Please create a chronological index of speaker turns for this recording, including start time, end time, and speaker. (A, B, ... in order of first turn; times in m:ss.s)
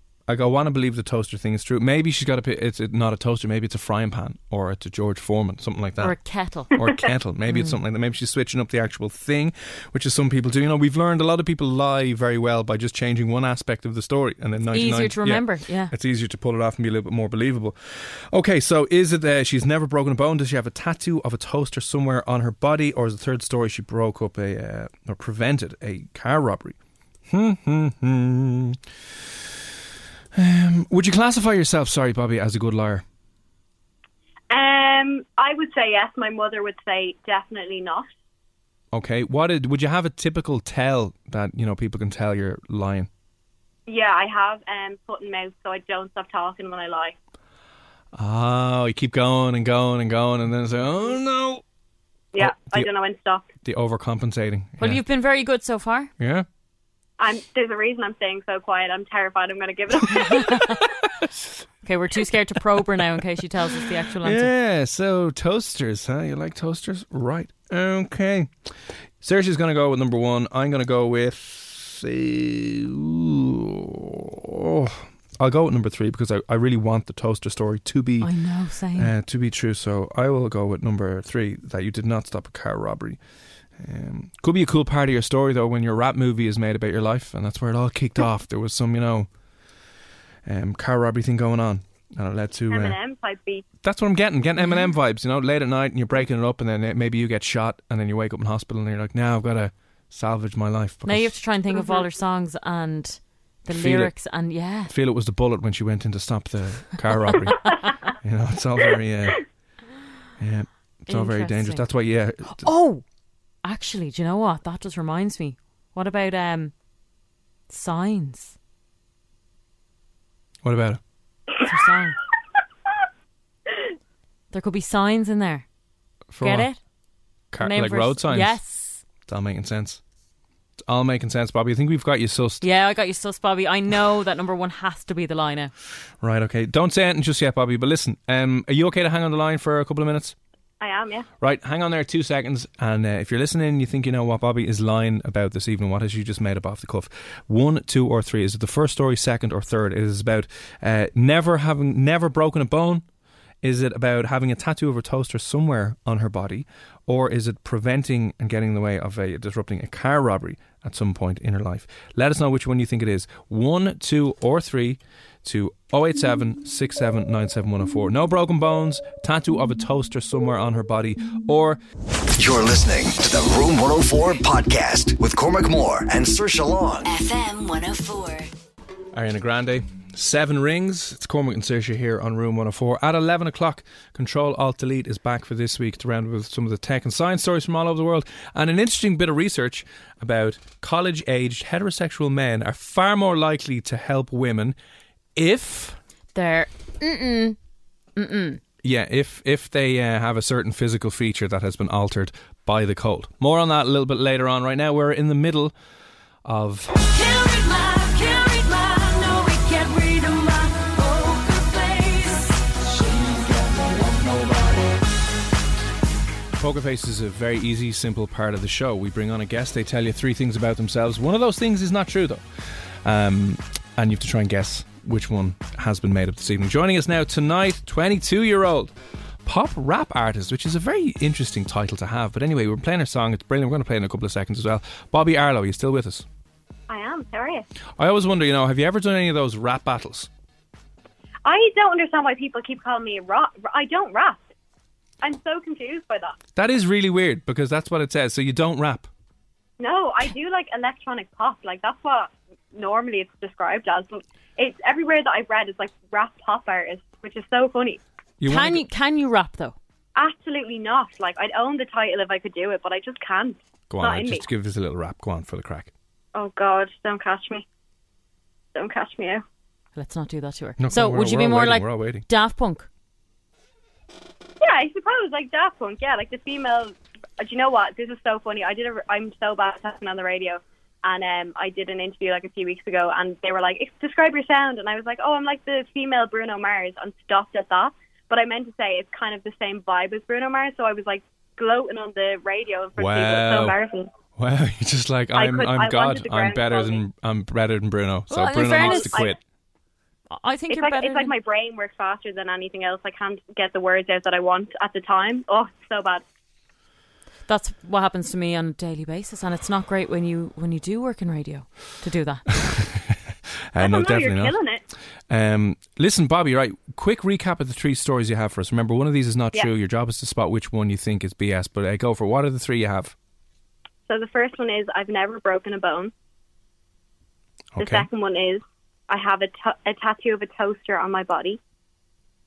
0:00.3-0:26.8 A
0:06.0-0:06.8 B
0:07.5-0:07.8 B
0:14.7-0:15.9 B
0:27.3-0:28.8 A
0:30.3-0:33.0 A
0:34.5-0:38.1 C
0:38.9-0:43.1 A
0:43.9-0:47.2 C
0:48.1-0:51.6 A
0:52.3-0:53.4 C
0:52.4-0:52.9 A
0:53.6-0:55.0 A
0:54.8-0:56.1 B
0:56.2-0:56.4 A
0:57.2-1:00.9 C
1:01.2-1:01.6 A
1:01.8-1:04.5 B
1:04.2-1:08.5 A
1:09.2-1:18.3 A
1:18.2-1:19.1 B
1:18.9-1:23.2 A
1:23.8-1:29.3 A
1:30.4-1:33.0 A
1:32.7-1:33.6 C
1:33.8-1:41.3 A
1:34.6-1:34.9 B
1:41.0-1:44.9 B
1:43.7-1:44.1 A
1:44.9-1:49.5 A
1:50.4-1:52.7 A
1:51.1-1:51.9 B
1:52.4-1:53.0 B
1:53.6-1:56.7 B
1:57.7-1:58.6 B
2:00.6-2:01.0 A
2:01.6-2:02.2 B
2:04.5-2:05.6 B
2:06.3-2:06.7 A
2:06.4-2:06.8 B
2:07.5-2:08.6 A
2:07.6-2:09.0 B
2:09.2-2:10.0 A
2:10.9-2:12.6 A
2:12.6-2:15.7 B
2:16.2-2:20.3 A
2:20.8-2:21.3 C
2:21.4-2:33.0 A
2:33.6-2:51.8 A
2:52.4-2:57.1 D
2:57.0-2:58.5 E
2:59.1-3:14.8 A
3:15.4-3:16.0 A
3:16.3-3:17.6 B
3:18.2-3:18.6 B
3:18.8-3:25.7 A
3:26.4-3:26.9 A
3:27.0-3:34.8 E
3:36.6-3:42.4 A
3:43.0-3:48.9 A
3:49.4-3:56.2 A
3:56.9-3:57.6 C
3:58.0-4:00.3 A
4:01.4-4:04.4 C
4:05.2-4:06.4 C
4:06.6-4:09.1 A
4:09.8-4:18.0 C
4:18.4-4:18.8 A
4:18.5-4:19.8 B
4:20.2-4:24.4 C
4:23.9-4:25.9 A
4:26.3-4:27.6 C
4:28.7-4:29.4 C
4:30.0-4:32.9 B
4:30.8-4:32.2 A
4:34.6-4:54.1 C
4:53.0-4:53.8 A
4:54.4-4:59.4 A
4:55.3-4:57.0 C
4:58.3-4:59.2 B
4:58.7-4:59.3 C
5:00.3-5:01.3 B
5:00.7-5:06.2 C
5:07.5-5:12.4 B
5:12.6-5:13.2 A
5:13.7-5:14.5 A
5:13.8-5:14.8 C
5:15.3-5:23.1 A
5:24.1-5:26.1 C
5:27.7-5:28.1 A
5:27.8-5:31.6 C